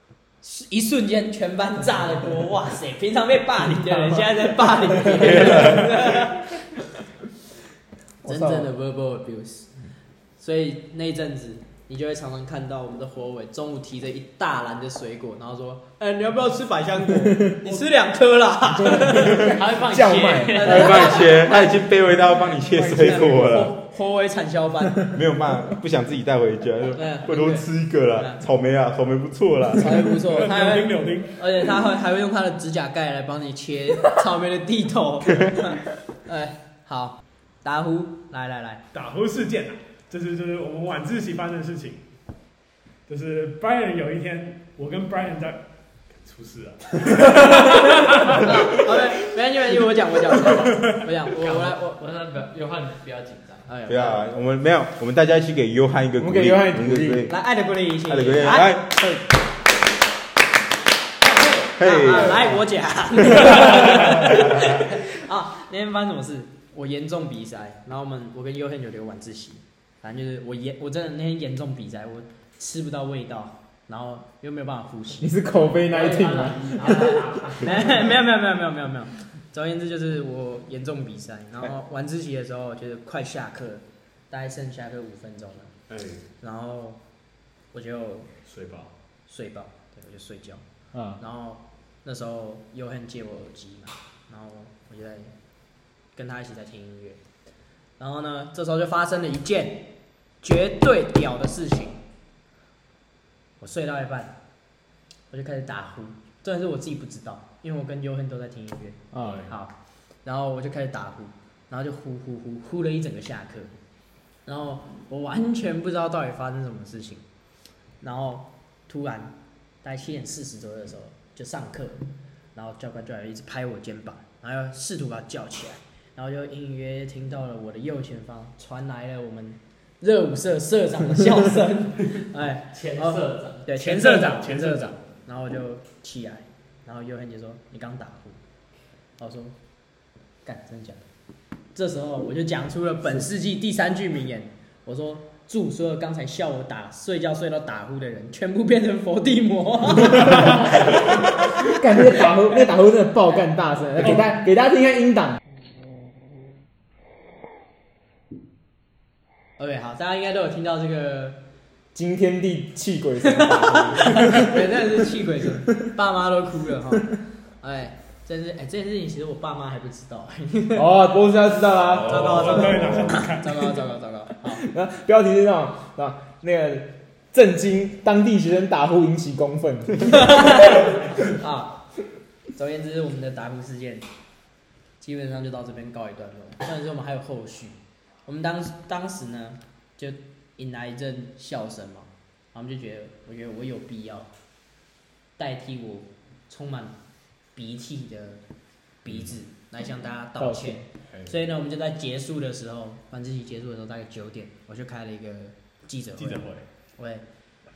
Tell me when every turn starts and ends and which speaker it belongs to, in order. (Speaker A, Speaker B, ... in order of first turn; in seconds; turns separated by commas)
Speaker A: 0.4-6.6, Speaker B: 8.2-8.7, Speaker A: 8.2-9.7, Speaker A: 10.4-19.5, Speaker B: 17.2-17.6, Speaker B: 18.6-21.1, Speaker C: 19.4-21.6, Speaker A: 20.5-21.8, Speaker D: 20.6-23.7, Speaker A: 22.7-25.1, Speaker D: 25.1-30.1, Speaker A: 26.9-28.4, Speaker A: 29.7-38.8, Speaker E: 30.2-31.4, Speaker E: 38.9-42.0, Speaker E: 43.1-48.8, Speaker A: 47.5-52.0, Speaker E: 50.6-51.1, Speaker C: 51.3-53.7, Speaker A: 53.7-54.2, Speaker D: 53.9-57.4, Speaker B: 56.2-57.3, Speaker A: 57.3-59.2, Speaker D: 58.0-59.0, Speaker A: 61.2-75.5, Speaker D: 61.8-62.6, Speaker B: 75.2-77.1, Speaker C: 75.9-78.1, Speaker A: 76.8-85.7, Speaker E: 85.9-86.2, Speaker A: 86.4-87.0, Speaker A: 87.7-88.3, Speaker E: 88.4-88.9, Speaker A: 89.3-90.6, Speaker B: 90.9-91.2, Speaker A: 91.2-95.3, Speaker A: 96.1-97.2, Speaker A: 98.0-99.8, Speaker A: 100.4-102.0, Speaker A: 103.6-104.3, Speaker A: 105.3-113.7, Speaker B: 109.1-109.4, Speaker E: 109.2-109.5, Speaker A: 114.5-117.2, Speaker A: 118.0-122.0, Speaker A: 122.5-138.4, Speaker C: 132.7-133.7, Speaker E: 133.7-135.0, Speaker A: 139.2-139.5, Speaker A: 140.4-141.0, Speaker A: 141.7-151.6, Speaker B: 150.2-155.4, Speaker A: 159.6-161.4, Speaker B: 161.9-164.6, Speaker A: 163.2-170.9, Speaker B: 170.7-173.1, Speaker E: 171.9-173.7, Speaker A: 172.0-174.6, Speaker B: 174.4-180.8, Speaker A: 180.1-181.8, Speaker A: 182.6-184.0, Speaker A: 185.0-194.3, Speaker A: 195.4-196.9, Speaker A: 197.5-198.4, Speaker A: 199.0-206.5, Speaker B: 200.4-200.8, Speaker E: 201.1-201.4, Speaker E: 206.2-206.6, Speaker A: 207.0-207.2